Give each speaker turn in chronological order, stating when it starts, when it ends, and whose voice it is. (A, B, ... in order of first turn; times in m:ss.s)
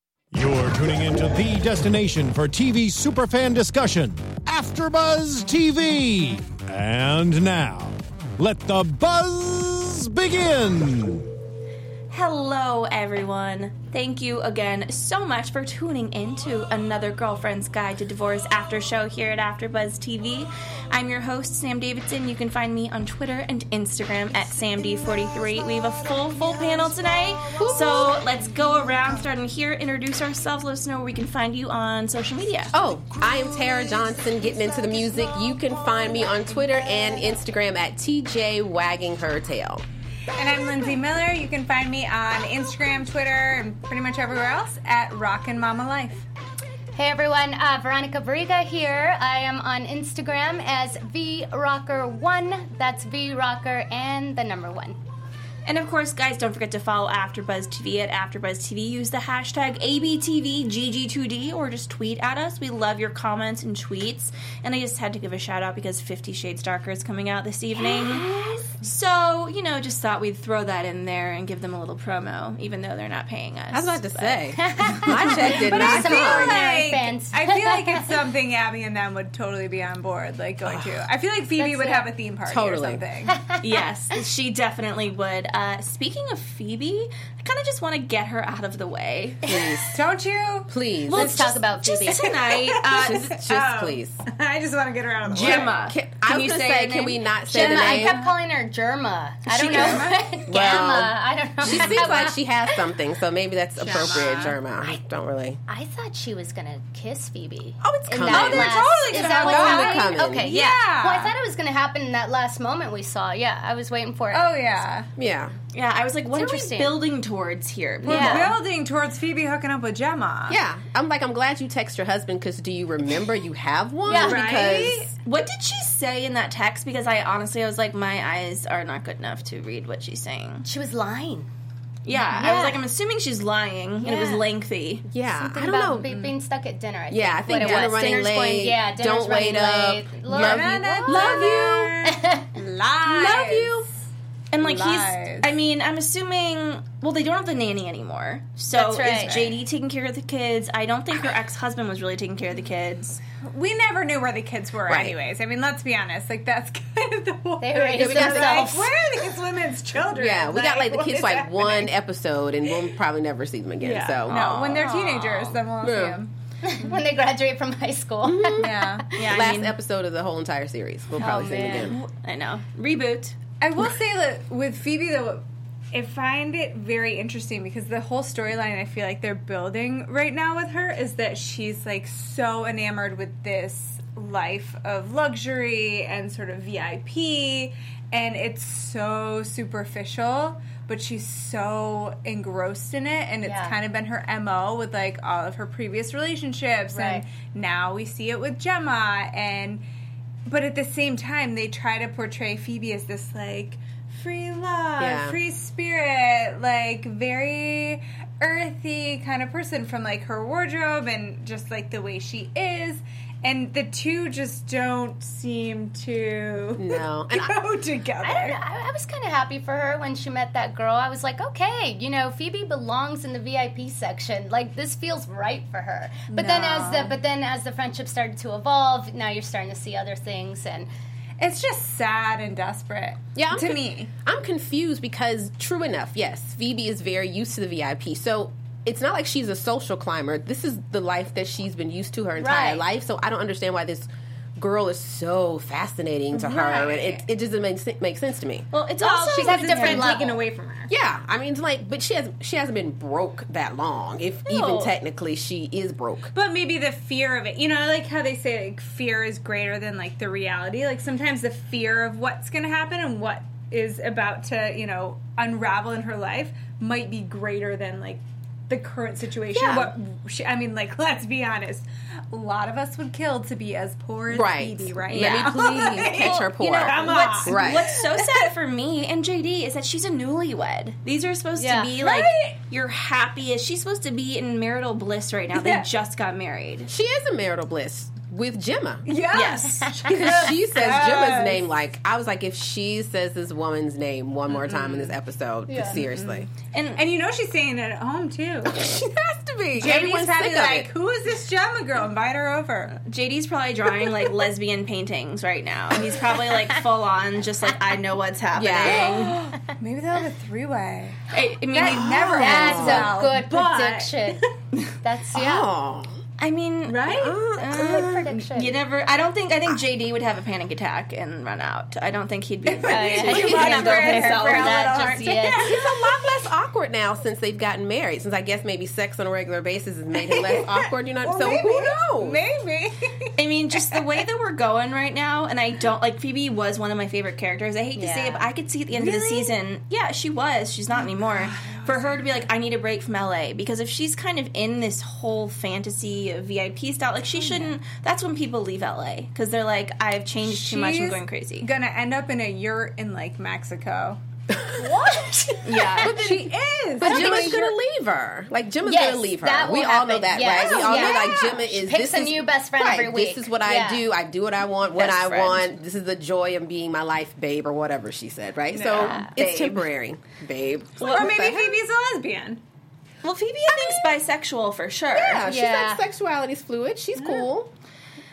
0:00.3-0:11.3 A
0:12.1-0:32.7 B
0:27.6-0:28.2 C
0:32.7-0:39.8 C
0:40.3-0:46.2 D
0:46.9-0:55.0 E
0:55.6-1:08.2 B
1:08.1-1:08.6 E
1:08.8-1:14.4 B
1:13.7-1:16.6 C
1:14.6-1:18.1 E
1:15.2-1:23.3 D
1:21.6-1:22.0 E
1:22.5-1:23.0 C
1:23.2-1:24.2 E
1:23.6-1:29.5 B
1:29.4-1:29.8 E
1:29.4-1:29.9 C
1:29.9-1:30.7 D
1:30.7-1:31.4 C
1:31.1-1:33.4 B
1:31.1-1:32.3 E
1:32.1-1:35.7 D
1:33.0-1:34.2 C
1:35.3-1:37.2 B
1:35.4-1:38.2 C
1:37.5-1:42.8 E
1:37.5-1:38.3 D
1:39.5-1:40.1 B
1:39.6-1:40.6 D
1:40.5-1:45.6 C
1:41.6-1:42.2 D
1:43.8-1:44.6 D
1:43.9-1:45.0 E
1:45.7-1:54.8 E
1:47.8-1:50.5 C
1:48.2-1:51.3 D
1:54.3-1:55.1 D
1:55.2-1:55.5 C
1:55.7-1:58.5 B
1:56.3-1:57.0 E
1:58.0-1:58.5 E
1:58.0-2:00.6 D
2:00.5-2:05.1 C
2:04.0-2:04.8 E
2:04.0-2:05.1 D
2:05.2-2:10.7 B
2:10.6-2:11.5 E
2:12.0-2:15.0 B
2:12.3-2:12.8 E
2:14.0-2:14.4 E
2:15.1-2:16.2 C
2:15.3-2:21.5 E
2:17.1-2:22.0 C
2:17.6-2:18.7 B
2:17.6-2:17.8 D
2:20.3-2:23.8 D
2:22.0-2:22.5 E
2:23.0-2:23.8 C
2:24.5-2:33.2 B
2:24.6-2:25.4 D
2:28.7-2:29.5 E
2:33.4-2:41.9 D
2:34.9-2:35.1 C
2:37.6-2:38.9 E
2:38.0-2:38.7 C
2:40.1-2:44.4 C
2:43.8-2:46.3 D
2:44.3-2:44.9 B
2:44.8-2:45.5 E
2:45.8-2:46.2 C
2:46.6-2:49.1 E
2:48.2-2:52.0 C
2:48.6-2:49.0 D
2:49.1-2:49.8 B
2:51.2-2:51.9 E
2:51.9-2:53.4 B
2:53.6-3:19.8 D
3:13.4-3:13.7 E
3:16.9-3:17.2 E
3:20.4-3:38.6 D
3:25.0-3:25.4 C
3:36.8-3:37.6 C
3:38.2-3:50.9 E
3:46.3-3:47.2 D
3:51.4-3:54.1 D
3:53.4-4:08.7 C
4:02.4-4:02.8 E
4:06.3-4:07.2 D
4:08.7-4:10.2 B
4:09.0-4:10.9 D
4:09.3-4:10.4 E
4:10.9-4:16.3 C
4:14.4-4:14.9 B
4:16.3-4:38.5 D
4:29.5-4:29.9 B
4:34.3-4:37.9 C
4:35.1-4:46.9 B
4:41.6-4:41.9 E
4:42.0-4:42.6 D
4:45.5-4:45.9 D
4:46.9-4:49.1 C
4:49.0-4:51.6 D
4:49.3-4:50.0 B
4:50.1-4:56.5 C
4:54.5-4:55.1 D
4:55.7-4:56.0 E
4:55.9-4:59.0 D
4:56.7-4:57.0 B
4:58.8-5:00.9 C
4:59.7-5:03.0 D
5:03.0-5:09.4 B
5:08.5-5:09.4 C
5:08.8-5:14.4 D
5:11.3-5:12.4 B
5:11.8-5:13.2 C
5:12.4-5:14.4 E
5:15.0-5:15.7 E
5:15.3-5:16.1 C
5:16.4-5:25.4 B
5:16.8-5:17.4 D
5:17.1-5:18.4 C
5:17.6-5:18.8 E
5:22.6-5:26.1 D
5:22.8-5:25.8 E
5:25.6-5:32.4 C
5:30.1-5:33.3 D
5:33.4-5:51.7 B
5:37.9-5:38.5 E
5:38.9-5:39.5 D
5:40.9-5:42.4 D
5:47.5-5:47.7 E
5:50.5-5:54.2 D
5:54.5-5:54.9 C
5:54.8-5:56.2 E
5:55.6-5:56.2 B
5:55.9-5:57.8 D
5:56.0-6:11.8 C
5:57.0-5:57.4 E
5:58.8-6:04.0 E
6:00.6-6:01.5 D
6:04.9-6:05.7 B
6:08.7-6:09.6 D
6:09.0-6:09.3 E
6:11.0-6:12.6 D
6:13.2-6:15.4 B
6:13.7-6:14.2 C
6:15.1-6:17.7 C
6:15.4-6:16.0 E
6:17.2-6:17.5 D